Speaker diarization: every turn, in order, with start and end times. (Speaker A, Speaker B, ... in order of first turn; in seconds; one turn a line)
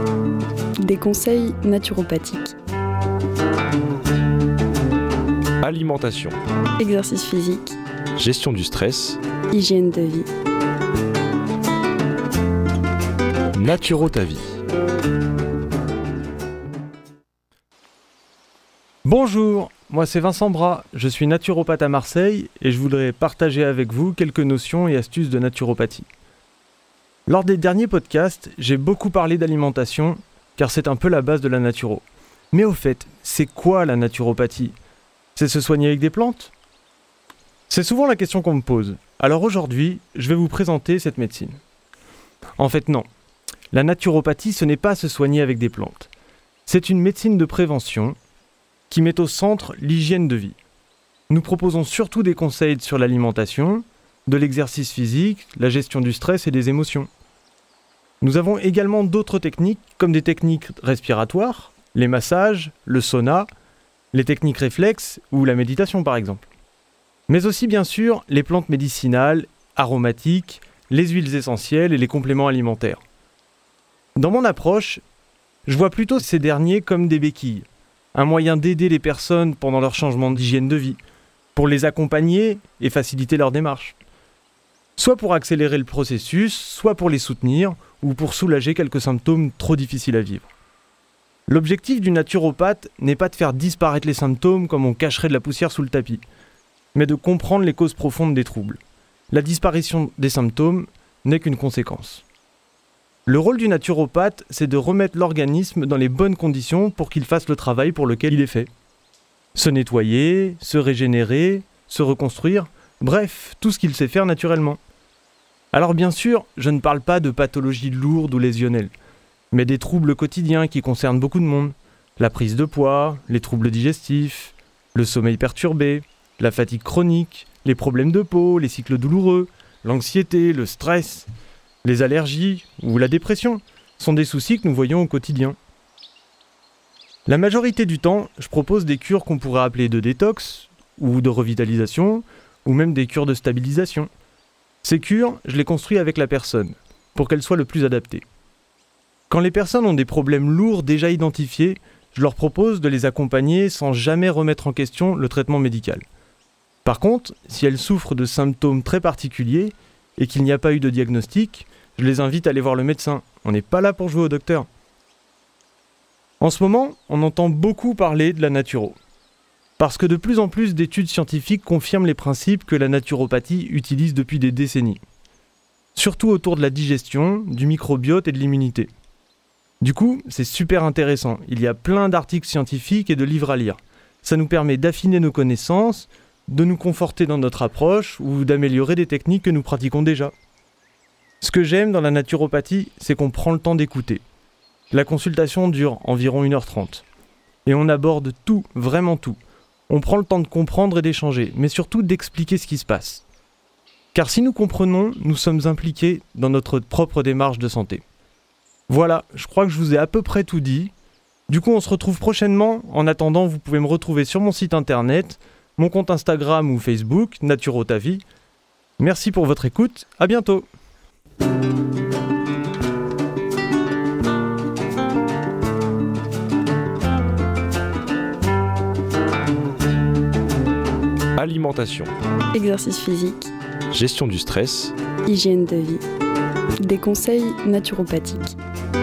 Speaker A: 0.8-2.5
Speaker B: 5.6-6.4
Speaker A: 6.8-7.7
Speaker B: 8.2-9.2
Speaker A: 9.5-10.3
Speaker B: 13.5-14.5
Speaker C: 19.0-26.1
Speaker C: 27.3-34.7
Speaker C: 35.4-36.5
Speaker C: 37.7-41.6
Speaker C: 42.6-43.0
Speaker C: 43.7-46.1
Speaker C: 46.7-48.1
Speaker C: 48.9-50.6
Speaker C: 51.3-57.1
Speaker C: 58.2-63.5
Speaker C: 64.1-66.5
Speaker C: 67.3-73.0
Speaker C: 74.2-75.0
Speaker C: 75.7-81.0
Speaker C: 81.5-84.0
Speaker C: 85.0-90.5
Speaker C: 91.5-96.2
Speaker C: 96.9-98.8
Speaker C: 99.3-102.2
Speaker C: 103.3-108.7
Speaker C: 109.5-114.8
Speaker C: 115.7-118.9
Speaker C: 119.5-131.3
Speaker C: 131.8-135.6
Speaker C: 137.3-144.1
Speaker C: 144.8-148.2
Speaker C: 149.3-156.0
Speaker C: 156.8-164.7
Speaker C: 166.4-169.0
Speaker C: 169.8-175.0
Speaker C: 175.9-178.9
Speaker C: 179.8-190.3
Speaker C: 191.4-194.2
Speaker C: 194.9-197.0
Speaker C: 197.7-199.4
Speaker C: 199.9-203.2
Speaker C: 204.1-208.0
Speaker C: 208.9-210.9
Speaker C: 211.5-218.2
Speaker C: 219.0-220.7
Speaker B: 231.4-232.1
Speaker A: 232.5-233.5
Speaker B: 233.9-234.9
Speaker A: 235.2-236.0
Speaker A: 236.8-238.6